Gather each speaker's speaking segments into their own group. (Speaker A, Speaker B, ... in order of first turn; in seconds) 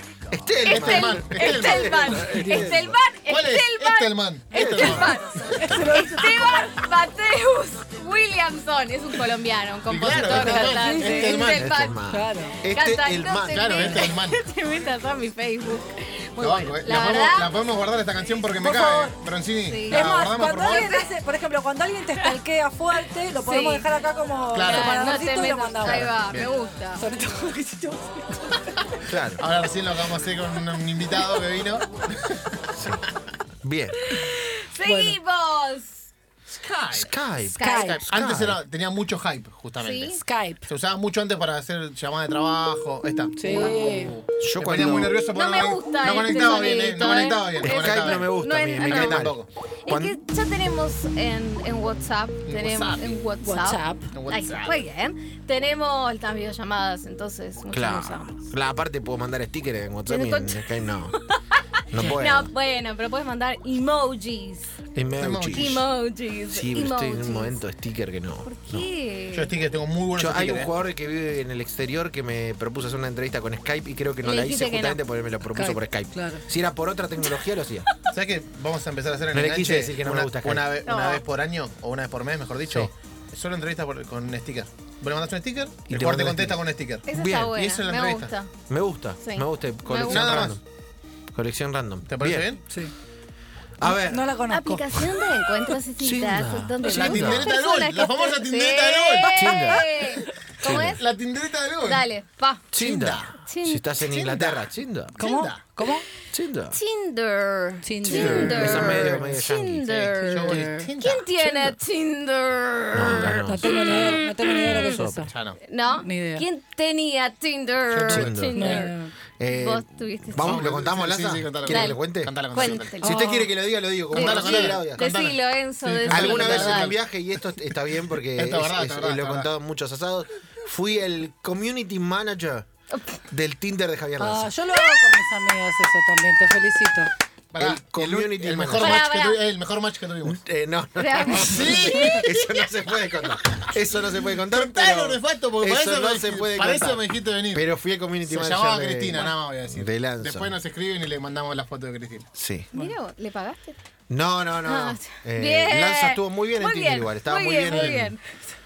Speaker A: 0.3-3.0, 4.5-6.0, 11.2-14.1, 29.1-29.4, 32.8-33.0, 33.6-34.0, 36.9-37.6, 38.1-38.6, 44.4-45.1, 47.6-50.2, 57.7-61.2, 61.9-62.5, 64.9-65.8, 66.5-68.9, 70.2-77.9, 79.3-80.7, 82.7-82.9, 85.9-87.6, 88.7-90.6, 91.3-92.5, 93.8-94.3, 96.0-97.5, 99.3-100.0, 100.6-101.0, 102.7-105.2, 106.3-106.8, 108.0-110.6, 112.9-113.9, 114.8-115.3, 118.1-118.8, 119.4-125.0, 126.1-132.7, 133.3-134.5, 137.6-139.1, 140.2-150.6, 152.3-152.7, 154.1-158.2
Speaker B: 0.7-2.3, 3.3-5.2, 9.9-11.7, 13.5-14.4, 16.4-20.9, 24.5-24.9, 25.8-26.5, 29.4-32.5, 36.5-37.1, 38.1-49.5, 52.5-53.3, 54.1-54.8, 65.2-65.9, 69.3-70.7, 78.1-88.3, 90.1-90.6, 92.1-92.6, 96.8-100.1, 100.7-102.0, 102.8-103.3, 104.1-105.6, 110.3-111.8, 115.3-115.6, 117.9-118.9, 120.4-123.2, 124.1-127.0, 128.4-129.5, 137.5-140.4, 141.2-142.7, 144.5-147.7, 148.2-152.3, 157.7-158.1
Speaker C: 0.7-12.0, 12.5-17.5, 19.6-21.1, 23.4-23.9, 24.6-27.0, 34.1-36.1, 37.4-38.1, 39.8-40.2, 45.2-49.3, 49.9-58.5, 60.1-61.1, 62.0-64.7, 65.5-67.6, 68.5-69.5, 74.2-75.0, 80.8-81.2, 87.1-88.5, 89.2-90.5, 94.5-101.1, 101.8-102.7, 103.5-103.8, 106.7-115.0, 115.7-119.0, 119.5-120.6, 121.7-123.4, 124.1-127.0, 132.9-133.2, 138.7-139.4, 141.0-142.3, 152.7-153.8, 154.7-158.2
Speaker D: 2.3-2.7, 4.6-6.6, 10.2-11.4, 12.1-12.6, 18.6-19.2, 19.9-26.2, 26.9-28.7, 34.9-35.2, 37.6-38.1, 40.2-40.7, 43.4-44.1, 53.4-54.0, 75.5-76.4, 92.7-92.9, 93.8-95.0, 105.2-106.1, 107.8-109.3, 110.3-110.9, 113.2-115.3, 116.0-116.5, 118.5-119.1, 123.1-123.5, 134.2-137.1